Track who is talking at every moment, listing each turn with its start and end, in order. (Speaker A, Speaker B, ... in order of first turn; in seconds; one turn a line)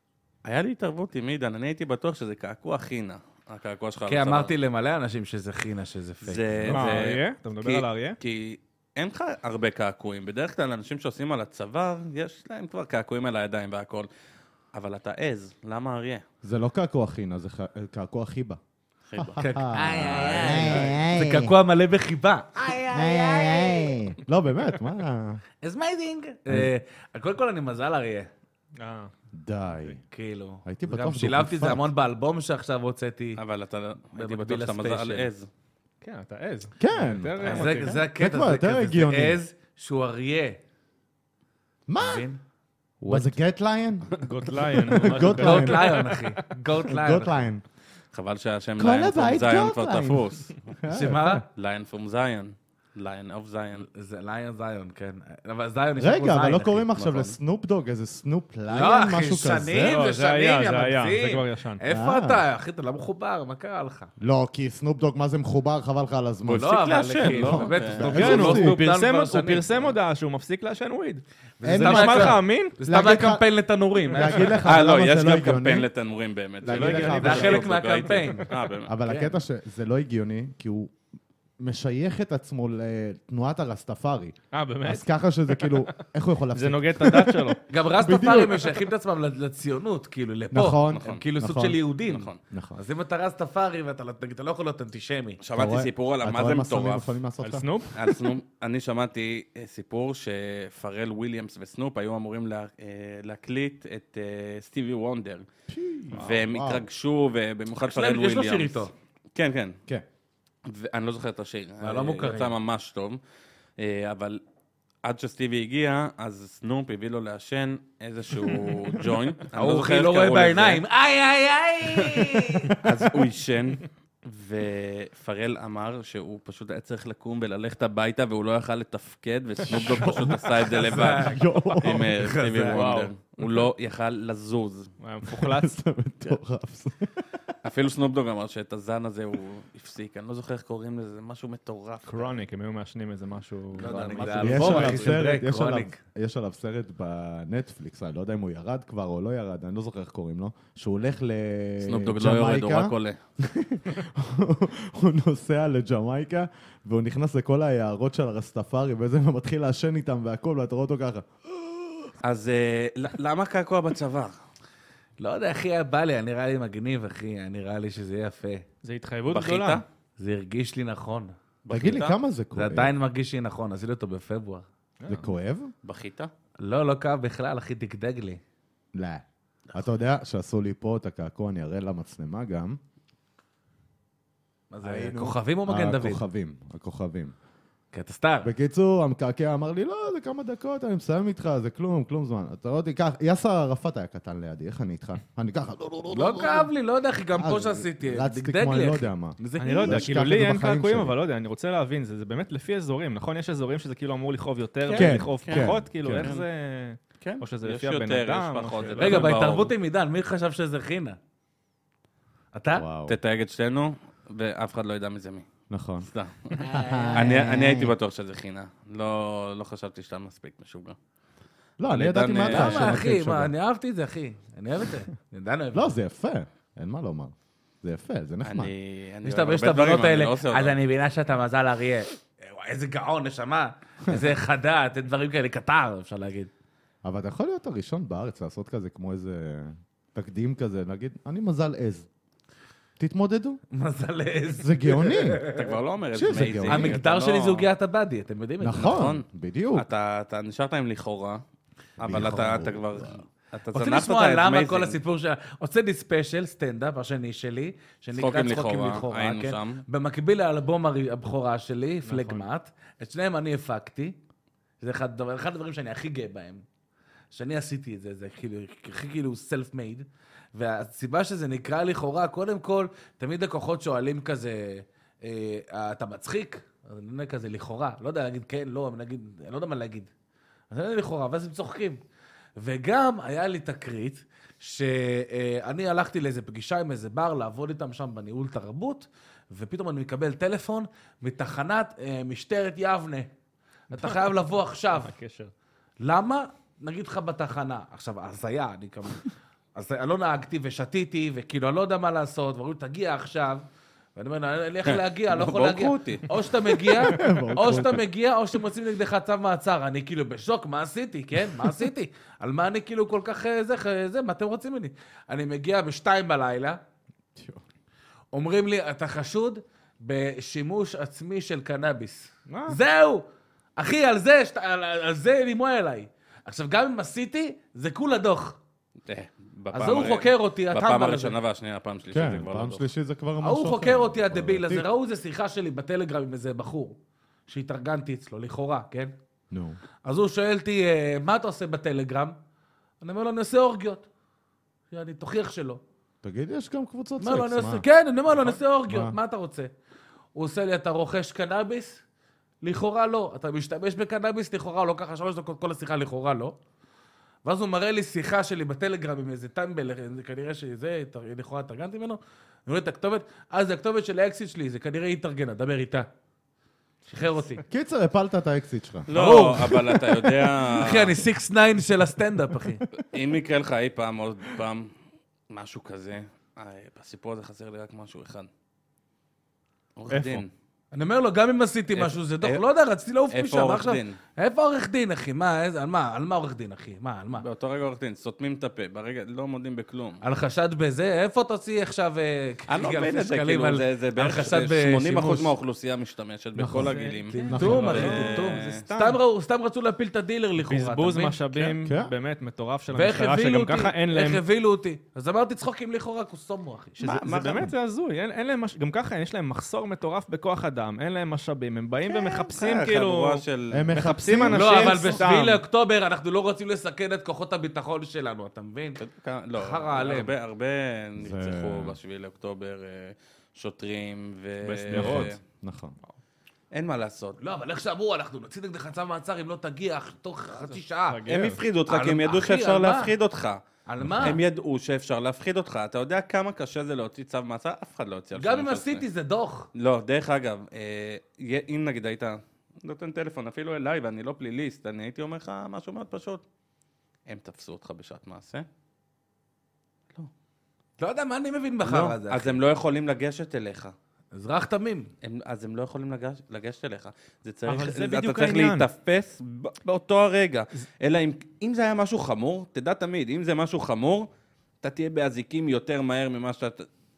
Speaker A: 0.5-4.5
Speaker B: 4.1-6.9
Speaker A: 6.2-14.1
Speaker C: 6.7-8.2
Speaker A: 14.7-16.2
Speaker D: 16.4-18.6
Speaker A: 19.1-20.9
Speaker D: 19.2-21.5
Speaker B: 19.4-24.1
Speaker D: 22.8-25.4
Speaker B: 25.6-28.3
Speaker C: 28.8-29.1
Speaker D: 29.3-30.0
Speaker B: 30.1-33.4
Speaker D: 30.6-31.9
Speaker A: 33.4-35.5
Speaker B: 34.1-35.3
Speaker C: 36.0-38.0
Speaker D: 36.8-37.6
Speaker A: 37.4-38.0
Speaker B: 37.5-40.6
Speaker D: 38.2-39.4
Speaker D: 41.9-42.3
Speaker B: 42.0-42.4
Speaker B: 43.0-43.4
Speaker D: 43.1-46.1
Speaker C: 44.2-46.4
Speaker B: 45.2-47.5
Speaker D: 46.8-47.6
Speaker A: 48.1-50.7
Speaker D: 48.8-51.4
Speaker B: 50.9-51.5
Speaker A: 51.5-53.9
Speaker B: 53.8-56.9
Speaker D: 56.0-60.0
Speaker A: 57.0-57.4
Speaker B: 58.7-64.1
Speaker C: 59.8-61.8
Speaker D: 61.9-62.4
Speaker D: 64.2-68.8
Speaker A: 66.5-68.4
Speaker B: 66.5-69.9
Speaker C: 68.1-72.8
Speaker B: 71.6-74.6
Speaker D: 71.6-73.5
Speaker D: 74.1-75.9
Speaker C: 74.2-74.6
Speaker A: 74.7-78.9
Speaker D: 76.6-77.7
Speaker C: 76.7-77.6
Speaker B: 77.1-78.5
Speaker D: 78.9-80.9
Speaker D: 81.6-88.8
Speaker C: 84.5-85.9
Speaker C: 86.5-87.6
Speaker B: 87.7-95.4
Speaker D: 90.5-91.8
Speaker A: 90.9-91.2
Speaker A: 92.1-92.4
Speaker D: 92.5-92.8
Speaker A: 95.4-97.2
Speaker D: 95.5-98.2
Speaker C: 97.4-98.0
Speaker A: 97.9-105.5
Speaker D: 105.7-106.9
Speaker A: 106.1-109.8
Speaker B: 107.8-108.9
Speaker A: 110.7-113.2
Speaker B: 111.8-112.5
Speaker A: 113.8-114.4
Speaker A: 115.0-120.8
Speaker B: 119.5-122.8
Speaker D: 122.7-123.1
Speaker A: 122.8-134.9
Speaker D: 129.6-132.2
Speaker B: 130.7-132.9
Speaker C: 132.7-133.7
Speaker C: 135.0-135.7
Speaker D: 135.3-137.3
Speaker A: 137.6-142.3
Speaker C: 142.1-144.8
Speaker A: 143.7-145.2
Speaker B: 143.8-146.0
Speaker D: 144.4-162.1
Speaker A: 151.8-153.2
Speaker A: 162.2-164.3
Speaker B: 165.2-168.7
Speaker C: 168.8-169.8
Speaker A: 169.3-169.8
Speaker B: 170.2-171.3
Speaker A: 171.6-172.2
Speaker D: 171.7-172.9
Speaker B: 172.5-174.6
Speaker C: 175.0-175.3
Speaker D: 175.1-175.7
Speaker A: 175.8-176.3
Speaker B: 176.6-178.4
Speaker D: 178.9-182.8
Speaker B: 184.7-186.2
Speaker D: 184.8-187.3
Speaker B: 187.9-188.5
Speaker D: 188.4-196.7
Speaker B: 196.1-200.1
Speaker D: 197.4-201.2
Speaker C: 199.6-209.4
Speaker A: 204.8-206.5
Speaker D: 204.9-206.3
Speaker A: 207.2-209.7
Speaker B: 209.0-211.2
Speaker B: 212.5-212.9
Speaker D: 212.7-213.2
Speaker A: 213.1-215.5
Speaker D: 215.7-216.1
Speaker A: 216.0-221.0
Speaker B: 216.6-217.3
Speaker D: 216.7-217.9
Speaker D: 221.8-223.5
Speaker A: 221.9-223.0
Speaker B: 222.4-225.9
Speaker D: 225.7-228.7
Speaker A: 228.4-230.8
Speaker B: 229.2-236.5
Speaker D: 237.0-242.1
Speaker D: 243.0-243.6
Speaker B: 243.7-245.6
Speaker D: 244.5-245.5
Speaker A: 245.5-247.7
Speaker D: 246.1-247.0
Speaker B: 246.3-249.0
Speaker D: 248.6-249.9
Speaker A: 248.8-251.4
Speaker D: 252.0-253.2
Speaker A: 252.0-255.0
Speaker B: 253.7-264.2
Speaker A: 258.1-259.8
Speaker C: 262.1-262.5
Speaker B: 264.8-266.6
Speaker B: 267.3-280.1
Speaker B: 280.7-282.0
Speaker B: 282.6-293.3
Speaker B: 293.9-295.1
Speaker C: 293.9-294.3
Speaker C: 294.9-295.5
Speaker B: 296.0-303.6
Speaker B: 304.2-316.8
Speaker A: 304.9-307.0
Speaker D: 307.0-308.1
Speaker D: 317.4-317.6
Speaker B: 318.3-323.3
Speaker C: 322.5-322.8
Speaker B: 323.8-328.6
Speaker A: 329.1-332.9
Speaker B: 329.7-331.4
Speaker D: 332.1-334.9
Speaker B: 333.4-339.1
Speaker D: 339.5-339.8
Speaker B: 340.0-342.4
Speaker B: 343.0-344.1
Speaker B: 344.9-345.8
Speaker D: 346.2-347.9
Speaker B: 347.2-349.7
Speaker D: 348.9-349.2
Speaker B: 350.4-352.0
Speaker B: 352.6-356.6
Speaker B: 357.4-366.1
Speaker B: 367.1-367.6
Speaker D: 367.7-369.1
Speaker A: 369.1-371.2
Speaker B: 369.1-372.8
Speaker A: 373.1-374.9
Speaker A: 375.5-378.5
Speaker A: 380.0-380.5
Speaker C: 380.1-380.4
Speaker B: 380.9-387.5
Speaker A: 381.9-382.6
Speaker A: 383.3-384.2
Speaker A: 387.4-390.2
Speaker B: 390.2-395.5
Speaker A: 392.7-399.2
Speaker B: 396.6-401.8
Speaker C: 396.7-398.6
Speaker D: 397.5-398.1
Speaker C: 400.6-404.4
Speaker D: 401.8-402.1
Speaker B: 402.9-407.0
Speaker C: 407.0-415.4
Speaker A: 407.0-407.7
Speaker A: 412.1-413.9
Speaker D: 413.7-415.6
Speaker B: 414.5-419.0
Speaker A: 419.0-425.4
Speaker B: 419.6-420.3
Speaker D: 421.2-422.0
Speaker C: 424.6-425.3
Speaker D: 424.9-425.9
Speaker A: 426.7-427.4
Speaker B: 427.4-431.2
Speaker C: 431.1-431.6
Speaker A: 431.3-433.6
Speaker B: 431.9-433.1
Speaker B: 433.9-434.4
Speaker D: 434.1-434.3
Speaker A: 434.2-439.0
Speaker B: 438.4-439.7
Speaker A: 439.8-446.4
Speaker A: 447.3-448.7
Speaker B: 451.0-452.6
Speaker A: 451.8-453.9
Speaker B: 454.3-455.1
Speaker A: 455.2-464.3
Speaker C: 457.7-458.9
Speaker A: 464.8-466.9